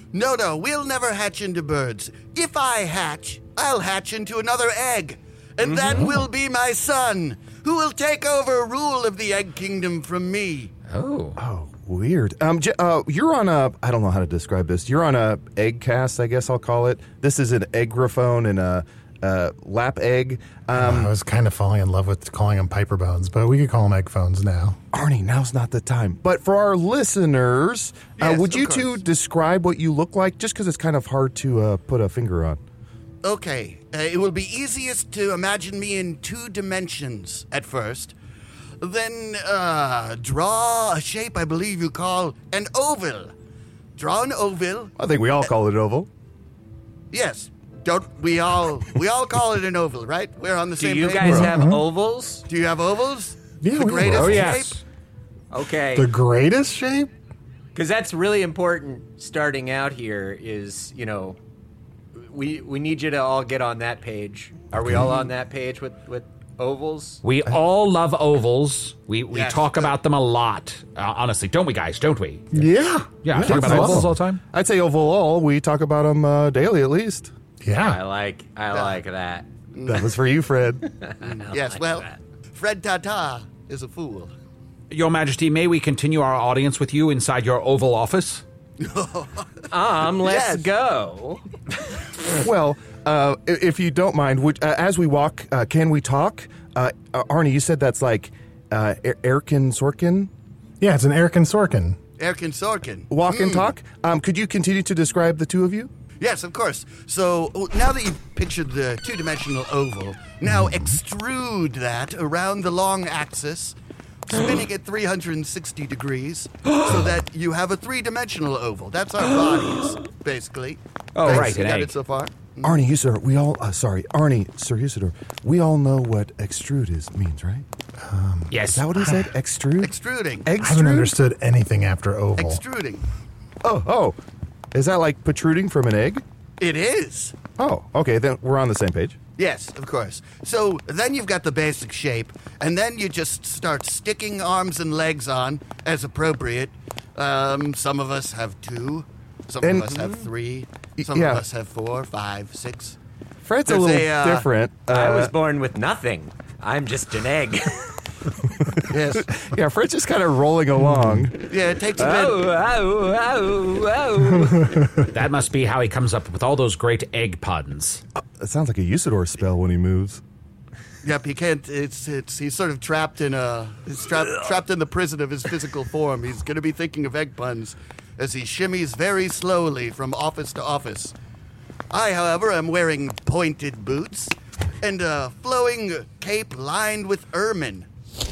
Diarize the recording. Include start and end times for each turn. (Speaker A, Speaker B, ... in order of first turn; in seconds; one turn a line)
Speaker A: 0.1-10.7
Speaker B: 10.9-11.4
Speaker C: 11.4-21.1
Speaker D: 20.8-24.8
Speaker C: 24.9-32.6
Speaker A: 28.2-29.0
Speaker A: 33.2-38.1
Speaker A: 38.8-43.3
Speaker A: 44.0-44.9
Speaker C: 45.0-46.1
Speaker A: 47.1-51.5
Speaker E: 50.8-52.4
Speaker D: 51.2-51.9
Speaker A: 52.5-54.8
Speaker D: 53.6-54.5
Speaker B: 54.1-54.8
Speaker E: 55.5-56.1
Speaker D: 55.9-57.1
Speaker E: 57.7-61.4
Speaker E: 62.1-67.2
Speaker B: 67.2-72.7
Speaker A: 69.3-69.9
Speaker D: 72.5-74.1
Speaker B: 73.2-74.4
Speaker C: 73.3-77.3
Speaker D: 77.6-78.0
Speaker E: 77.8-79.5
Speaker A: 78.7-79.0
Speaker A: 79.7-80.1
Speaker C: 79.9-80.8
Speaker E: 80.9-82.2
Speaker A: 81.2-84.3
Speaker B: 84.9-88.4
Speaker A: 88.8-89.6
Speaker E: 89.7-91.4
Speaker A: 90.2-90.7
Speaker C: 92.4-100.3
Speaker D: 100.8-102.0
Speaker A: 102.2-103.7
Speaker C: 103.1-105.9
Speaker A: 106.2-113.7
Speaker D: 110.5-111.0
Speaker A: 114.3-122.8
Speaker B: 121.2-121.9
Speaker C: 121.2-121.5
Speaker C: 122.6-127.6
Speaker D: 128.0-129.3
Speaker B: 128.5-128.8
Speaker C: 128.7-131.1
Speaker A: 129.8-130.5
Speaker D: 130.6-132.6
Speaker A: 132.4-133.0
Speaker C: 133.6-134.2
Speaker C: 134.7-136.2
Speaker A: 136.6-137.3
Speaker C: 137.6-139.2
Speaker A: 139.4-152.9
Speaker C: 149.6-149.9
Speaker E: 150.0-150.2
Speaker C: 151.0-151.4
Speaker C: 153.4-155.3
Speaker A: 153.7-154.5
Speaker E: 154.8-157.9
Speaker A: 158.9-159.3
Speaker C: 158.9-161.3
Speaker D: 160.9-161.2
Speaker A: 161.5-162.4
Speaker E: 162.0-164.8
Speaker B: 165.1-168.0
Speaker C: 168.2-170.2
Speaker A: 171.0-181.1
Speaker A: 181.9-187.9